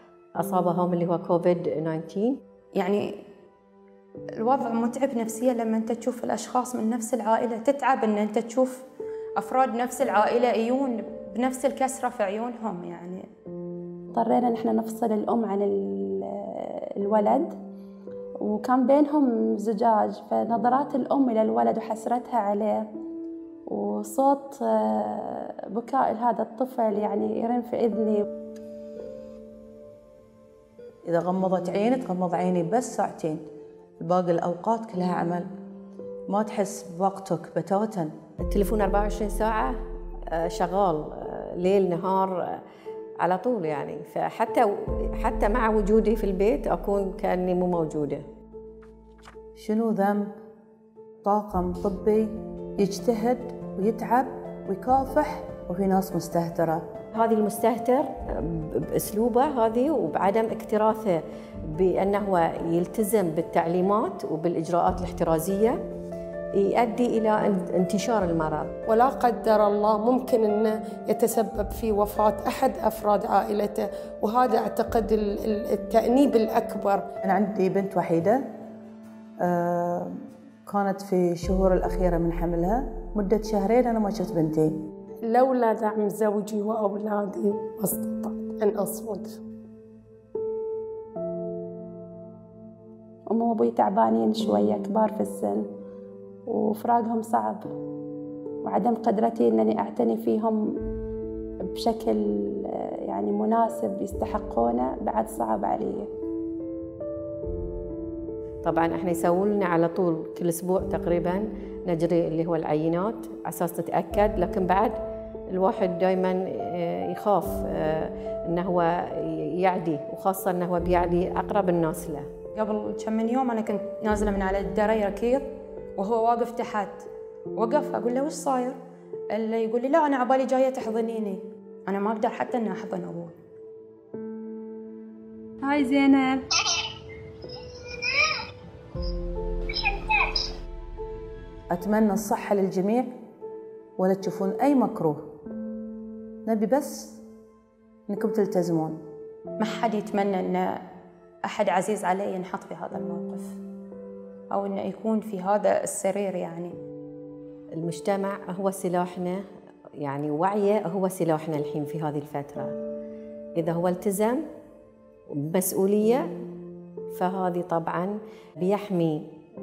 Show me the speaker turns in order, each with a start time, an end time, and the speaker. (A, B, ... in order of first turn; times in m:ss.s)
0:00.4-0:02.4 A
0:02.8-0:03.2 B
0:04.4-0:08.8 B
0:09.4-0:13.2 B
0:14.1-0:17.6 C
0:18.4-0:22.9 C
0:23.7-0:28.2 C
0:31.0-0:33.4 D
0:34.0-0:35.5 D
0:36.3-0:38.1 D
0:38.4-0:39.8 A
0:40.3-0:42.6 A
0:43.2-0:48.2 A
0:49.6-0:50.3 D
0:51.2-0:56.8 D
0:57.1-1:05.8 A
1:06.6-1:08.7 A
1:08.9-1:17.1 E
1:17.2-1:18.4 D
1:19.4-1:24.7 D
1:25.2-1:29.4 E
1:33.3-1:35.7 C
1:36.5-1:37.7 C
1:38.6-1:40.8 C
1:41.7-1:46.1 C
1:48.6-1:55.0 A
1:55.5-2:02.3 A
2:02.6-2:05.5 B
2:06.0-2:07.0 B
2:07.6-2:08.8 B
2:09.3-2:13.4 B
2:15.6-2:16.4 C
2:21.7-2:23.1 D
2:24.0-2:25.2 D
2:26.5-2:27.2 D
2:28.1-2:29.0 D
2:29.6-2:30.8 B
2:31.4-2:33.6 B
2:34.5-2:36.7 B
2:37.8-2:39.4 A
2:40.0-2:42.8 A
2:43.6-2:44.4 A
2:45.3-2:46.3 A
2:47.1-2:49.2 A